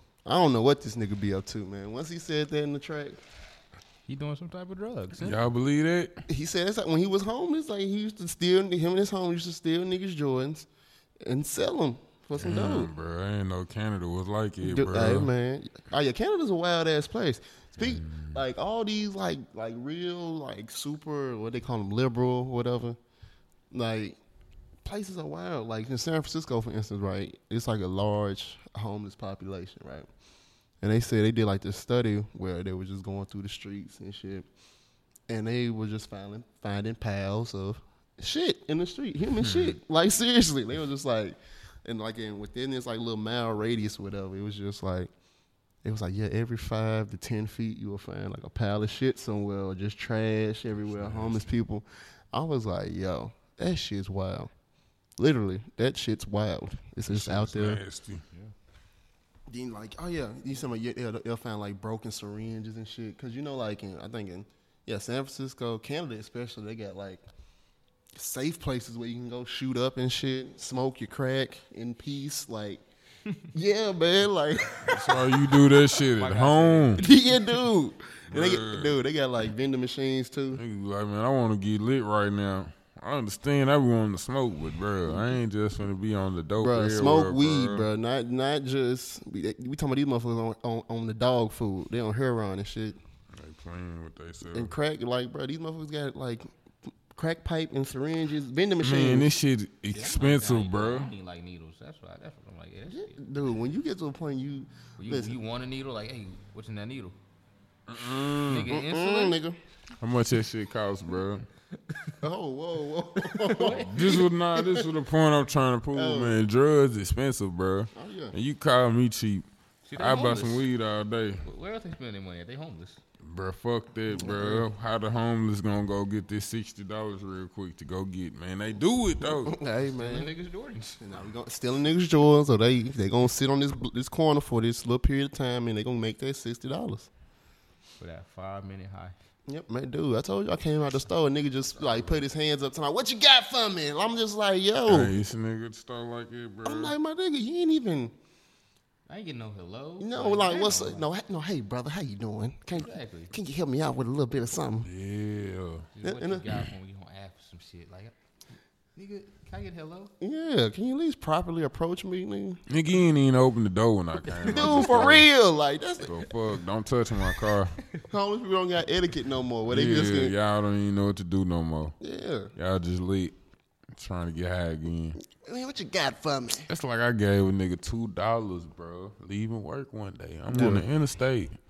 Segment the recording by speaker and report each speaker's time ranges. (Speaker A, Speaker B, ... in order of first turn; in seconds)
Speaker A: 0.2-3.2, 6.3-10.7, 11.2-12.9, 14.6-23.0, 23.7-24.2, 24.8-30.1, 30.8-34.5, 35.3-45.1, 45.8-54.5, 55.2-57.8, 59.5-67.2, 68.1-72.8, 73.5-75.6, 77.0-80.6, 85.1-85.4, 86.6-93.0, 94.5-96.5, 97.1-99.3, 102.9-105.3, 108.6-109.6, 112.2-114.9, 115.9-116.5, 117.9-118.3, 124.1-124.7, 129.2-130.3, 131.0-137.1, 139.5-145.2, 146.6-148.1, 150.0-154.9, 156.0-156.4, 160.2-162.6, 164.4-166.2, 168.1-170.3, 172.0-172.5, 175.3-176.7, 180.5-180.8
Speaker B: 4.1-5.4, 76.2-77.1, 99.9-103.2, 105.0-107.2, 108.5-109.4, 111.9-112.2, 113.2-113.9, 119.8-120.7, 121.4-123.0, 129.9-131.0, 138.0-139.1, 149.1-151.1, 152.8-153.3, 155.9-158.1, 158.9-160.1
Speaker C: 5.2-6.2, 12.3-15.3, 17.8-18.4, 39.4-39.8, 50.9-51.4, 57.0-58.2, 74.9-77.0, 78.3-78.9, 80.5-87.9, 93.3-94.7, 98.8-101.1, 107.9-108.7, 110.0-111.4, 113.8-119.5, 120.0-121.4, 123.2-129.5, 144.9-146.9, 154.8-155.9, 162.7-165.3, 166.0-167.8, 169.7-171.9, 172.6-173.3, 173.9-175.2, 176.7-181.6